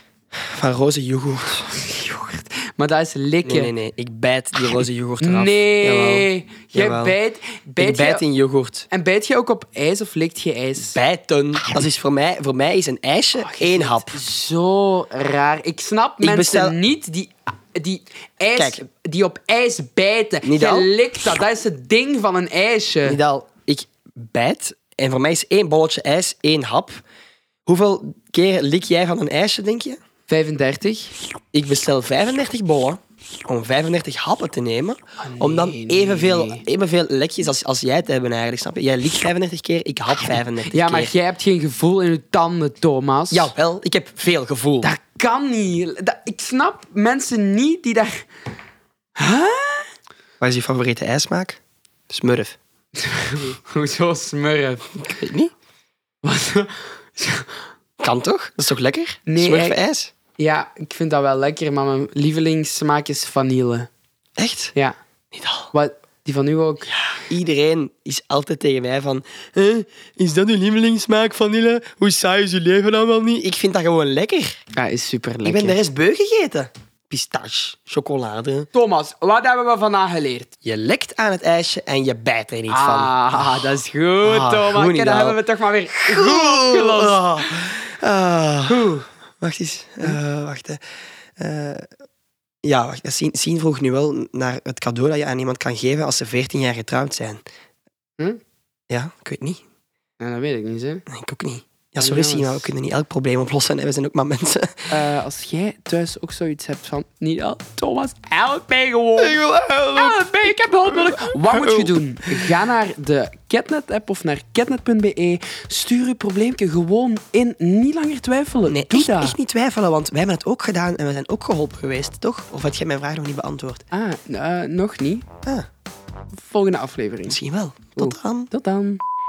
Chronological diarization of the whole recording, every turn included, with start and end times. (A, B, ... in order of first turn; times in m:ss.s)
0:00.4-0:01.7 A
0:01.7-0:03.7 B
0:03.4-0:07.2 A
0:04.7-0:08.2 B
0:07.8-0:08.9 A
0:08.9-0:11.0 B
0:10.8-0:14.2 A
0:13.4-0:23.2 B
0:16.2-0:16.8 A
0:18.5-0:18.8 A
0:20.4-0:20.9 A
0:23.0-0:27.0 A
0:27.7-0:30.0 A
0:30.3-0:31.1 B
0:31.5-0:41.1 A
0:35.3-0:36.7 B
0:40.7-0:43.5 B
0:43.3-0:44.9 A
0:44.8-0:48.2 B
0:49.2-0:49.9 B
0:50.4-0:51.6 A
0:52.1-0:52.6 A
0:53.0-0:54.9 B
0:55.0-0:55.5 A
0:56.2-0:57.5 B
0:58.0-1:00.1 A
0:59.3-0:59.8 B
1:00.4-1:03.9 B
1:04.4-1:04.7 A
1:05.3-1:05.7 A
1:05.7-1:06.9 B
1:07.1-1:14.6 A
1:14.7-1:15.8 B
1:15.4-1:18.7 A
1:18.7-1:20.5 B
1:20.6-1:23.6 A
1:22.7-1:27.5 B
1:24.2-1:25.4 A
1:25.9-1:30.8 A
1:28.7-1:29.0 B
1:31.4-1:31.9 A
1:32.6-1:37.4 A
1:38.9-1:39.6 A
1:40.2-1:41.0 B
1:41.1-1:45.0 A
1:42.0-1:42.7 B
1:44.9-1:49.4 B
1:49.2-1:52.6 A
1:50.0-1:59.4 B
1:58.7-2:03.8 A
2:03.9-2:05.2 B
2:06.4-2:07.4 B
2:07.3-2:08.5 A
2:08.0-2:09.0 B